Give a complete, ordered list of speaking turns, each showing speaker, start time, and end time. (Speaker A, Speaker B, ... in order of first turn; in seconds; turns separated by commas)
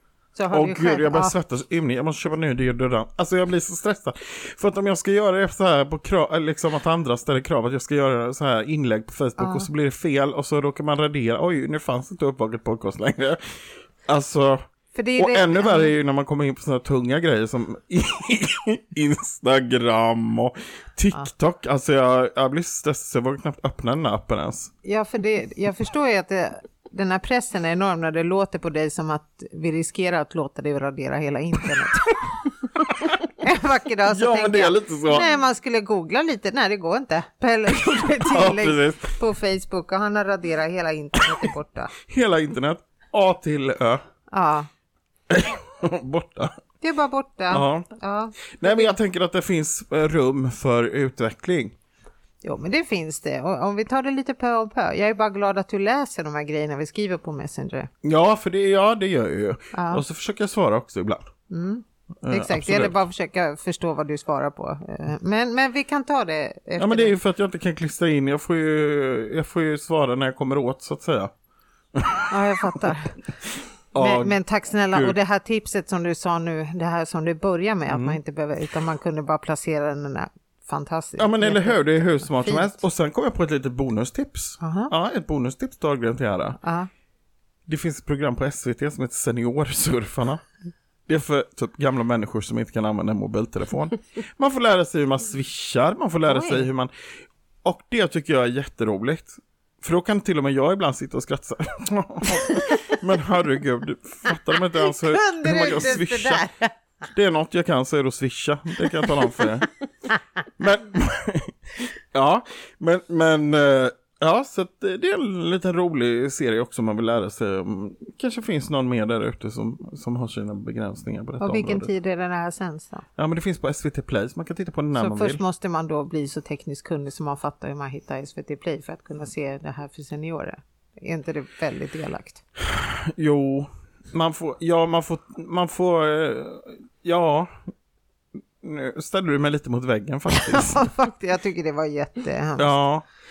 Speaker A: 0.3-1.4, Speaker B: 0.5-14.6, Speaker A: 9.4-9.7, Speaker A: 14.9-15.9, Speaker B: 15.2-24.7, Speaker A: 24.8-32.3, Speaker A: 33.1-41.9, Speaker B: 34.1-35.3, Speaker B: 38.1-39.1, Speaker B: 42.0-44.0, Speaker A: 44.3-44.7, Speaker B: 45.3-46.6, Speaker A: 46.8-48.9, Speaker B: 47.5-47.9, Speaker B: 48.5-51.7, Speaker A: 52.4-57.9, Speaker B: 58.0-61.3, Speaker A: 59.7-60.0, Speaker A: 61.5-67.1, Speaker B: 62.2-63.0, Speaker B: 66.8-71.3, Speaker B: 71.9-72.3, Speaker A: 72.3-73.2, Speaker B: 73.9-74.4, Speaker A: 74.0-82.8, Speaker B: 77.9-78.2, Speaker B: 81.2-86.6, Speaker A: 84.6-84.9, Speaker A: 86.6-86.9, Speaker B: 87.7-90.4, Speaker B: 91.1-106.4, Speaker A: 96.3-96.7, Speaker A: 104.9-106.7, Speaker B: 107.0-109.7, Speaker B: 110.6-121.9, Speaker A: 121.4-123.0, Speaker B: 123.2-125.4, Speaker A: 124.9-132.4, Speaker B: 132.6-137.6, Speaker B: 138.6-140.9, Speaker A: 140.3-142.8, Speaker B: 142.6-143.0